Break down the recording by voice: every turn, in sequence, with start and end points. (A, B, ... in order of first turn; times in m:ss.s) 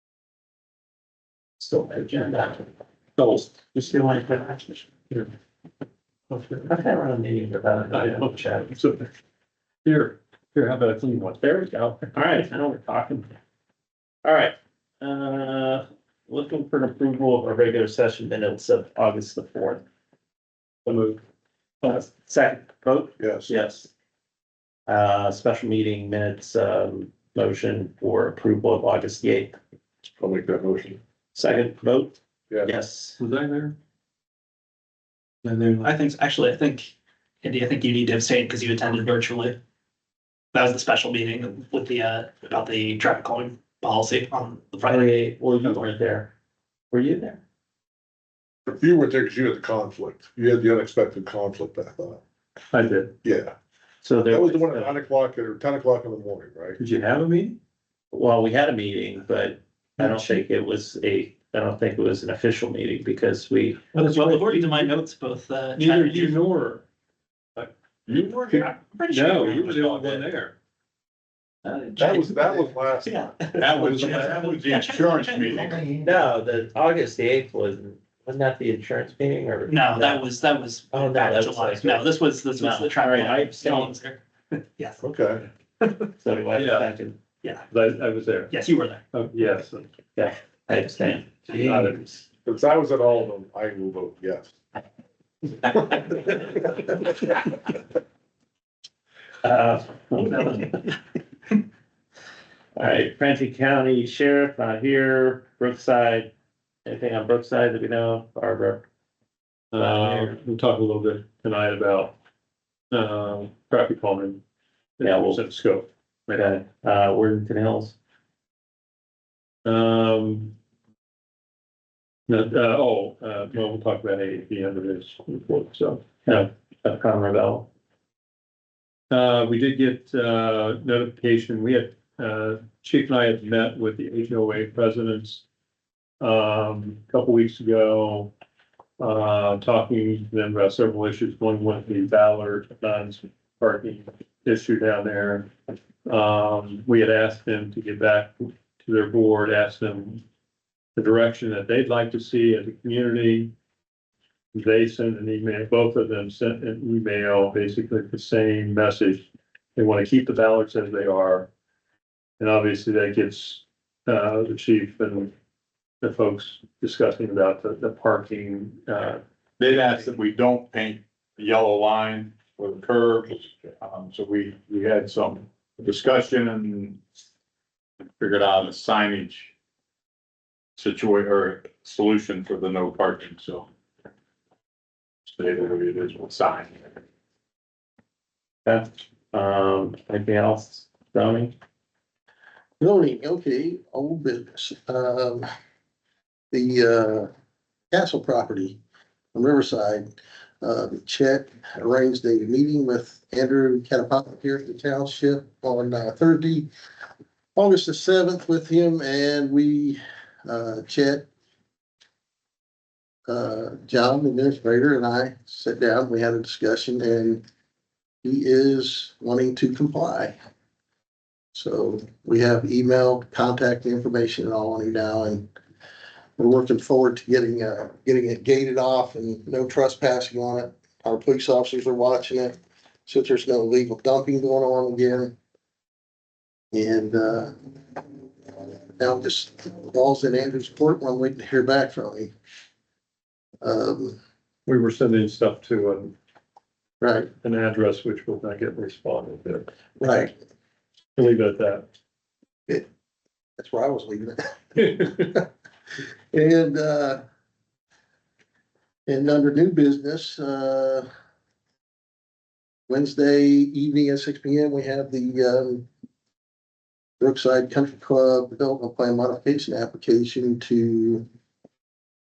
0:01.6-0:02.6 A
0:03.2-0:03.5 B
0:03.4-0:04.9 A
0:06.3-0:06.7 B
0:06.7-0:08.7 A
0:07.9-0:09.1 B
0:09.8-0:12.1 B
0:11.4-0:13.3 A
0:14.2-0:19.8 A
0:20.9-0:21.2 A
0:21.8-0:23.9 A
0:23.2-0:23.5 C
0:24.9-0:29.6 A
0:30.2-0:31.0 C
0:31.4-0:33.2 A
0:33.2-0:33.8 B
0:35.4-0:39.6 D
0:40.5-0:45.1 D
0:44.8-0:46.3 A
0:46.9-0:47.4 A
0:48.7-0:52.2 C
0:52.7-0:53.2 B
0:53.2-0:53.6 C
0:54.0-0:55.0 A
0:54.3-0:56.8 C
0:56.8-0:57.6 B
0:58.1-1:03.9 A
1:00.0-1:00.4 B
1:03.9-1:06.4 D
1:04.0-1:05.0 B
1:05.8-1:06.8 B
1:08.1-1:08.6 E
1:08.5-1:10.3 D
1:08.5-1:10.6 B
1:11.6-1:12.3 D
1:12.0-1:14.6 C
1:13.2-1:14.2 A
1:13.5-1:15.9 E
1:13.7-1:15.9 D
1:16.0-1:20.3 A
1:19.7-1:24.2 D
1:20.9-1:24.0 A
1:24.8-1:25.0 D
1:25.0-1:25.5 C
1:26.2-1:27.2 A
1:26.5-1:26.9 B
1:27.7-1:28.5 B
1:28.5-1:29.0 D
1:29.1-1:29.9 B
1:30.2-1:32.0 A
1:31.6-1:32.0 B
1:32.4-1:34.5 C
1:35.9-1:36.5 C
1:39.4-1:40.9 A
1:42.8-1:46.3 A
1:46.9-1:48.8 A
1:49.7-1:52.2 B
1:50.0-1:50.3 A
1:52.9-1:54.4 B
1:55.0-1:56.6 B
1:55.0-1:55.4 A
1:56.4-1:58.0 A
1:59.6-2:00.5 B
2:02.3-2:06.4 B
2:06.2-2:07.7 A
2:09.1-2:15.4 B
2:16.2-2:18.3 B
2:19.0-2:25.5 B
2:26.0-2:30.2 B
2:31.0-2:33.5 B
2:34.5-2:39.2 B
2:39.8-2:41.5 B
2:42.4-2:45.3 B
2:46.0-2:49.2 B
2:49.6-2:57.0 E
2:58.2-2:59.5 E
3:00.8-3:03.7 E
3:05.3-3:06.8 E
3:08.7-3:11.5 A
3:12.8-3:15.5 F
3:16.5-3:17.3 F
3:17.9-3:18.8 F
3:19.4-3:20.1 F
3:20.6-3:26.7 F
3:27.6-3:31.3 F
3:33.3-3:37.4 F
3:38.2-3:40.4 F
3:41.5-3:45.5 F
3:46.4-3:55.3 F
3:56.7-3:57.5 F
3:59.0-4:02.3 F
4:03.6-4:04.2 F
4:04.7-4:06.2 B
4:07.0-4:07.3 F
4:07.4-4:09.7 B
4:10.0-4:10.3 F
4:11.2-4:11.9 B
4:13.6-4:15.5 F
4:16.3-4:17.2 F
4:19.1-4:21.1 F
4:22.9-4:25.9 F
4:27.2-4:31.2 F